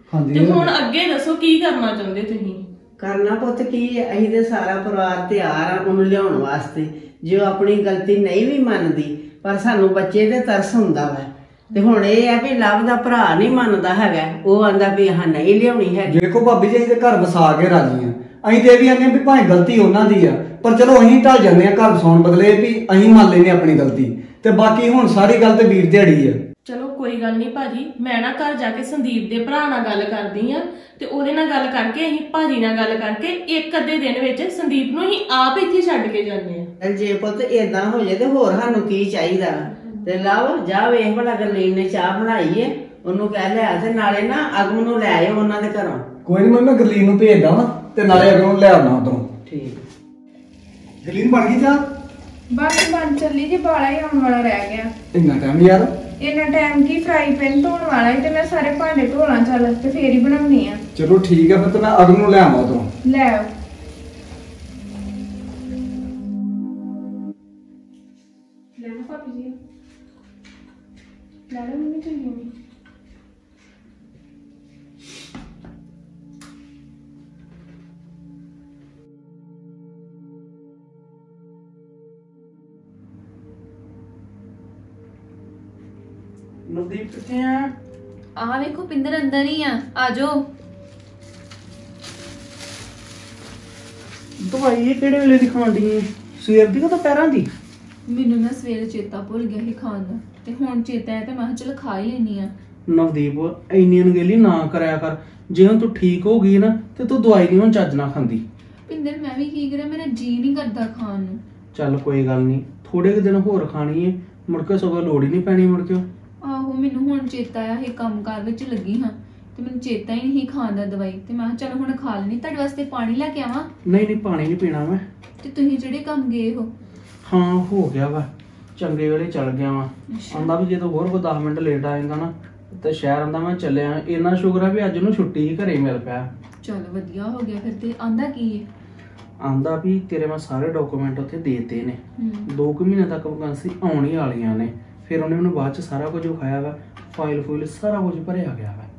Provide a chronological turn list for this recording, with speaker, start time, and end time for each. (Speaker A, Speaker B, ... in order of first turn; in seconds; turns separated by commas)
Speaker A: 0.1-0.7, Speaker B: 0.3-2.6, Speaker C: 3.0-16.1, Speaker A: 16.1-26.4, Speaker B: 26.6-36.7, Speaker C: 36.8-46.0, Speaker A: 46.2-49.3, Speaker C: 49.5-49.8, Speaker A: 51.0-51.8, Speaker D: 52.5-54.9, Speaker A: 55.1-55.9, Speaker D: 56.2-60.8, Speaker A: 60.9-62.9, Speaker D: 63.0-63.5, Speaker D: 68.8-69.5, Speaker D: 71.5-72.5, Speaker E: 86.7-87.7, Speaker F: 88.3-90.5, Speaker E: 94.4-97.5, Speaker F: 98.1-102.5, Speaker E: 102.9-108.4, Speaker F: 108.9-111.4, Speaker E: 111.7-116.0, Speaker F: 116.4-123.7, Speaker E: 123.8-125.0, Speaker F: 125.4-126.7, Speaker E: 127.2-136.3, Speaker F: 130.1-130.5, Speaker F: 136.6-138.7, Speaker E: 139.4-148.9, Speaker F: 142.2-142.5